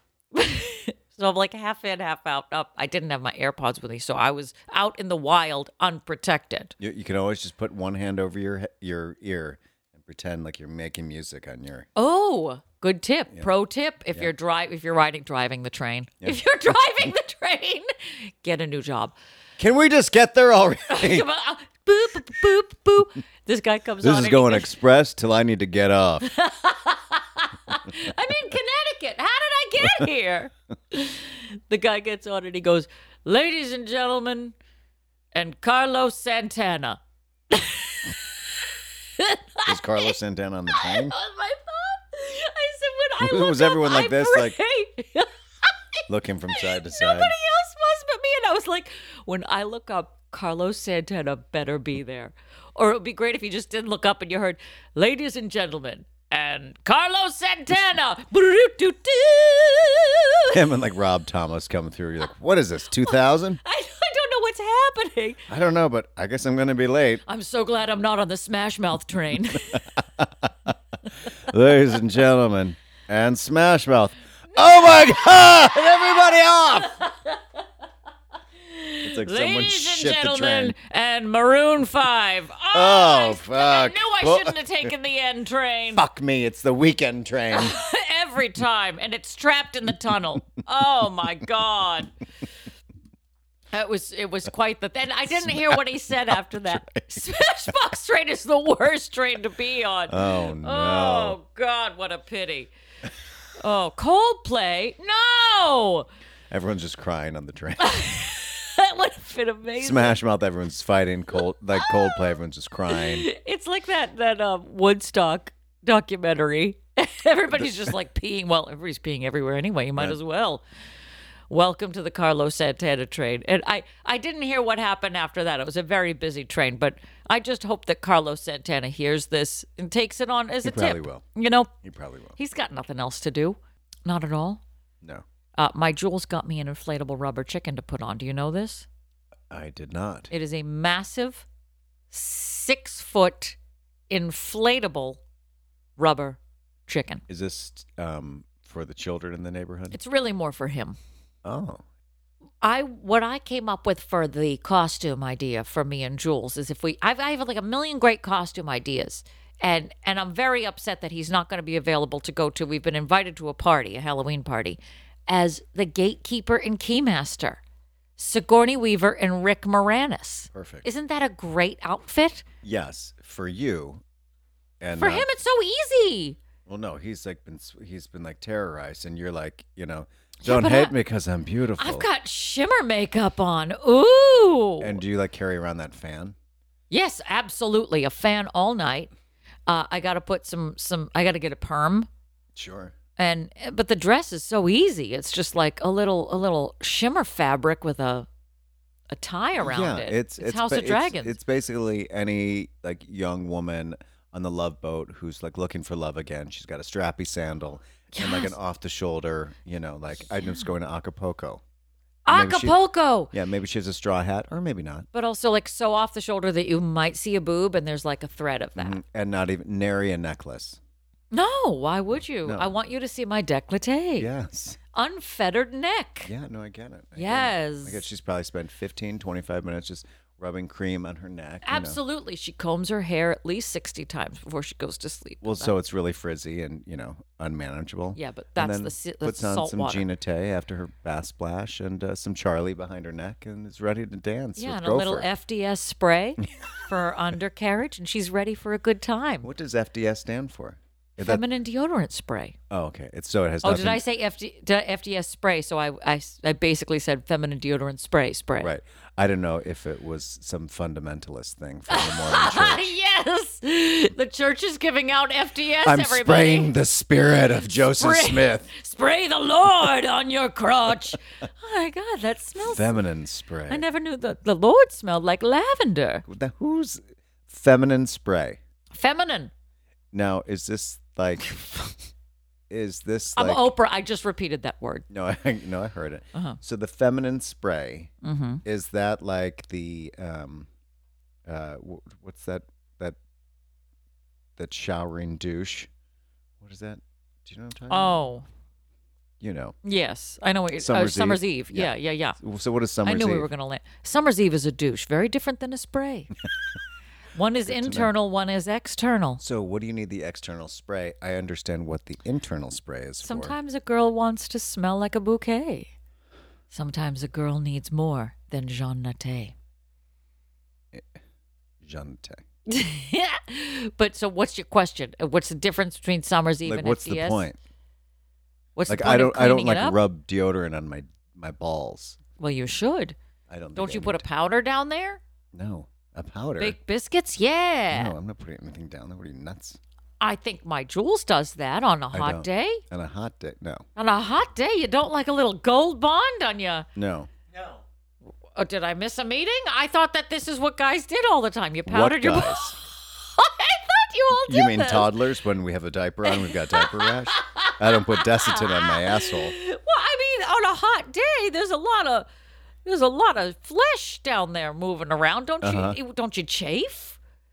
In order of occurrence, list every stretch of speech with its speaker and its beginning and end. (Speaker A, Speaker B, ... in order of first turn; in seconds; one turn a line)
Speaker A: 0.3-6.7
Speaker B: 6.8-11.9
Speaker A: 11.9-19.1
Speaker B: 19.6-21.3
Speaker A: 20.9-24.7
Speaker B: 24.0-26.3
Speaker A: 26.2-34.5
Speaker A: 35.3-37.0
Speaker A: 37.5-38.1
Speaker A: 39.2-40.1
Speaker B: 39.6-41.1
Speaker A: 40.7-45.3
Speaker B: 43.2-44.6
Speaker B: 46.1-47.3
Speaker A: 46.5-60.5
Speaker B: 60.5-63.6
Speaker A: 63.1-65.4
Speaker B: 65.5-67.2
Speaker A: 67.3-69.8
Speaker B: 69.7-70.7
Speaker B: 71.5-77.0
Speaker A: 76.9-77.4
Speaker A: 78.7-86.0
Speaker B: 79.0-80.8
Speaker B: 82.7-84.9
Speaker B: 85.9-87.8
Speaker A: 87.5-92.1
Speaker A: 93.7-102.7
Speaker B: 95.3-97.0
Speaker B: 100.1-101.4
Speaker A: 103.6-106.1
Speaker B: 106.5-108.0
Speaker A: 107.8-110.2
Speaker B: 109.8-113.3
Speaker A: 111.8-112.2
Speaker A: 112.9-120.6
Speaker A: 121.5-131.7
Speaker B: 130.6-131.2
Speaker B: 131.8-132.4
Speaker A: 132.4-134.6
Speaker A: 135.6-138.9
Speaker B: 139.5-140.3
Speaker A: 140.3-141.4
Speaker A: 142.1-143.6
Speaker A: 144.1-145.2
Speaker A: 146.0-147.2
Speaker B: 147.3-150.0
Speaker A: 149.9-151.0
Speaker B: 151.4-151.8
Speaker A: 152.6-167.6
Speaker A: 168.2-172.4
Speaker B: 170.5-170.8
Speaker B: 172.6-174.0
Speaker B: 174.8-175.3
Speaker A: 174.9-176.4
Speaker B: 176.7-182.1
Speaker A: 180.4-180.9
Speaker A: 181.8-185.0
Speaker B: 184.8-186.3
Speaker A: 186.9-189.1
Speaker A: 189.7-192.1
Speaker B: 192.5-192.9
Speaker A: 193.2-198.3
Speaker A: 199.1-201.4
Speaker B: 199.6-211.6
Speaker A: 208.1-208.5
Speaker A: 212.2-213.3
Speaker B: 212.3-212.8
Speaker B: 213.3-215.1
Speaker A: 215.1-219.0
Speaker B: 218.7-220.8
Speaker A: 221.3-224.3
Speaker B: 222.4-222.7
Speaker B: 224.2-224.8
Speaker A: 224.9-226.3
Speaker B: 226.2-232.0
Speaker A: 227.2-228.1
Speaker A: 231.6-235.7
Speaker B: 235.4-245.3
Speaker A: 238.1-240.1
Speaker A: 244.6-249.5
Speaker B: 249.4-251.4
Speaker A: 251.2-252.6
Speaker B: 252.7-254.0
Speaker A: 253.6-258.7
Speaker B: 258.6-262.9
Speaker A: 261.9-266.7
Speaker B: 265.8-268.7
Speaker A: 267.8-272.9
Speaker B: 272.6-273.8
Speaker A: 273.7-276.2
Speaker B: 276.2-278.6
Speaker A: 278.9-279.5
Speaker B: 280.1-281.8
Speaker B: 282.7-283.7
Speaker A: 283.4-285.1
Speaker B: 285.1-288.1
Speaker A: 286.3-286.6
Speaker A: 288.2-288.6
Speaker B: 288.6-290.7
Speaker B: 291.4-293.2
Speaker B: 294.6-295.9
Speaker B: 296.6-298.2
Speaker A: 297.9-298.4
Speaker B: 299.4-299.7
Speaker A: 299.8-302.4
Speaker B: 300.8-303.5
Speaker A: 303.0-306.3
Speaker A: 307.3-309.4
Speaker B: 307.6-308.1
Speaker B: 309.4-313.6
Speaker A: 313.2-315.9
Speaker A: 316.7-319.5
Speaker B: 320.9-321.2
Speaker B: 321.8-322.4
Speaker A: 322.7-327.4
Speaker B: 326.6-327.6
Speaker A: 328.8-330.0
Speaker B: 328.9-332.2
Speaker A: 332.4-333.1
Speaker B: 333.5-334.2
Speaker A: 333.8-335.2
Speaker B: 335.5-336.8
Speaker A: 336.6-338.1
Speaker B: 337.9-339.8
Speaker A: 340.2-342.8
Speaker B: 342.1-343.8
Speaker A: 343.9-346.9
Speaker B: 346.9-347.3
Speaker A: 348.6-355.1
Speaker B: 351.9-352.8
Speaker B: 354.3-359.5
Speaker A: 356.2-362.3
Speaker A: 362.8-367.2
Speaker B: 365.6-366.0